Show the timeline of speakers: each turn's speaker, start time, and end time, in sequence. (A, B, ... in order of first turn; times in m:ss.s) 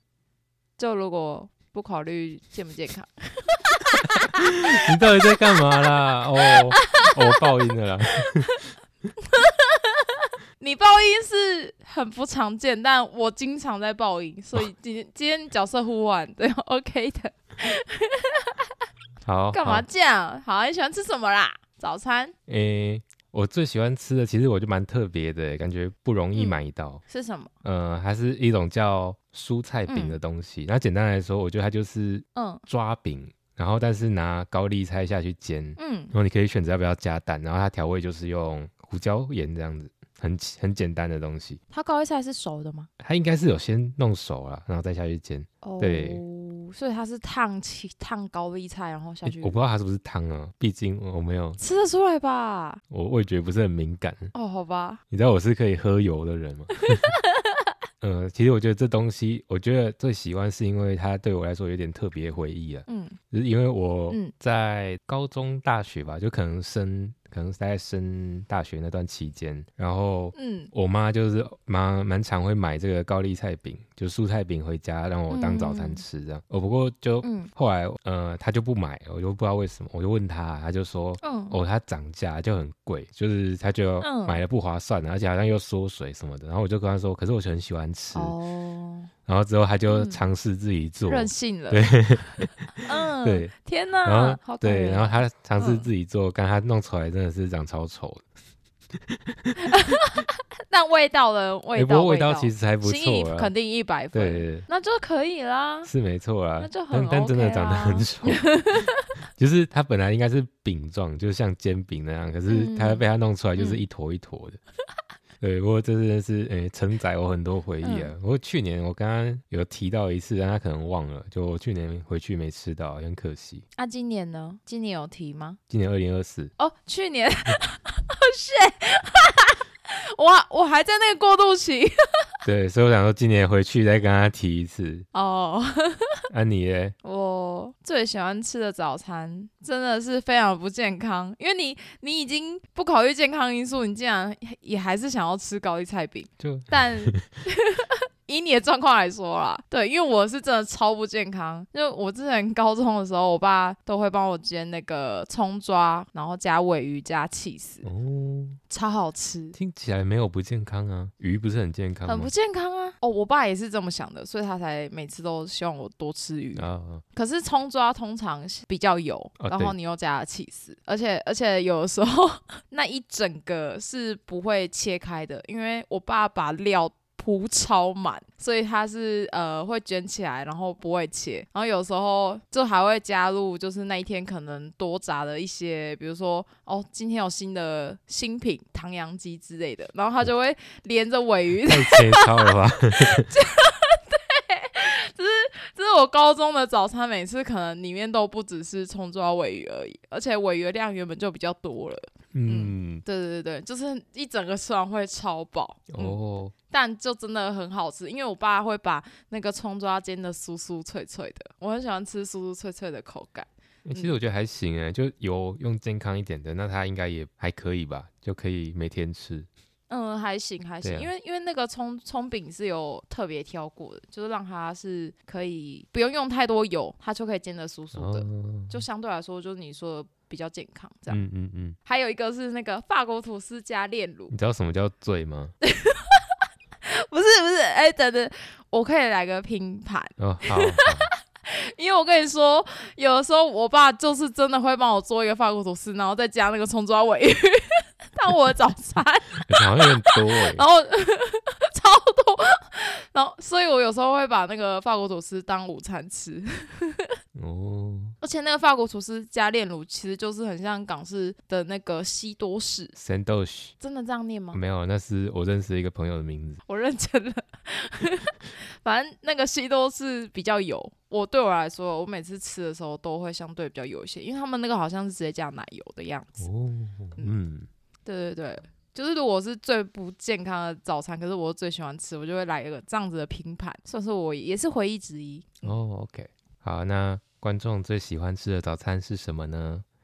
0:00.8-0:04.0 A
0:04.4-0:08.6 B
0:06.8-0:07.1 A
0:09.3-0:10.1 A
0:10.6-0:18.5 A
0:19.2-0:19.8 B
0:19.5-0:22.3 A
0:22.5-0:27.0 B
0:26.3-0:27.5 A
0:27.6-0:41.6 B
0:29.9-0:30.2 A
0:32.3-0:32.6 A
0:35.8-0:36.1 A
0:41.7-0:42.9 A
0:43.0-0:46.2 B
0:45.6-0:49.6 A
0:49.2-0:51.6 B
0:51.6-0:52.8 A
0:52.9-0:54.3 B
0:54.3-0:55.0 A
0:55.1-0:57.1 B
0:57.1-0:57.4 A
0:58.0-1:28.3 B
1:02.8-1:03.2 A
1:10.3-1:10.7 A
1:15.3-1:16.0 A
1:17.2-1:17.5 A
1:21.2-1:21.6 A
1:24.0-1:24.4 A
1:28.1-1:29.1 A
1:29.3-1:32.5 B
1:29.9-1:30.2 A
1:31.1-1:31.9 A
1:32.7-1:35.9 A
1:33.2-1:33.5 B
1:34.0-1:38.2 B
1:39.7-1:45.9 A
1:41.7-1:43.5 B
1:44.1-1:44.6 B
1:45.8-1:54.6 B
1:46.6-1:49.1 A
1:52.5-1:53.8 A
1:55.4-2:03.6 B
1:57.8-1:58.1 A
2:03.8-2:05.6 A
2:05.7-2:06.5 B
2:06.6-2:12.2 A
2:12.4-2:15.1 B
2:15.1-2:16.1 A
2:16.3-2:16.9 B
2:17.0-2:37.9 A
2:26.4-2:27.2 B
2:37.8-2:38.6 B
2:38.7-2:39.6 A
2:39.5-2:42.3 B
2:42.0-3:34.1 A
2:46.5-2:47.0 B
2:49.4-2:49.7 B
3:11.6-3:13.3 B
3:22.3-3:23.0 B
3:25.9-3:26.5 B
3:33.8-3:39.5 B
3:39.9-3:51.2 A
3:40.8-3:41.1 B
3:47.9-3:48.8 B
3:51.1-3:51.8 B
3:51.8-3:54.3 A
3:54.3-3:55.5 B
3:55.6-4:17.1 A
4:00.2-4:01.1 B
4:09.5-4:10.6 B
4:17.3-4:18.1 B
4:18.2-4:22.9 A
4:23.0-4:23.7 B
4:23.8-4:24.6 A
4:24.5-4:26.6 B
4:26.7-4:36.4 A
4:36.4-4:37.7 B
4:38.0-4:45.7 A
4:45.6-4:49.8 B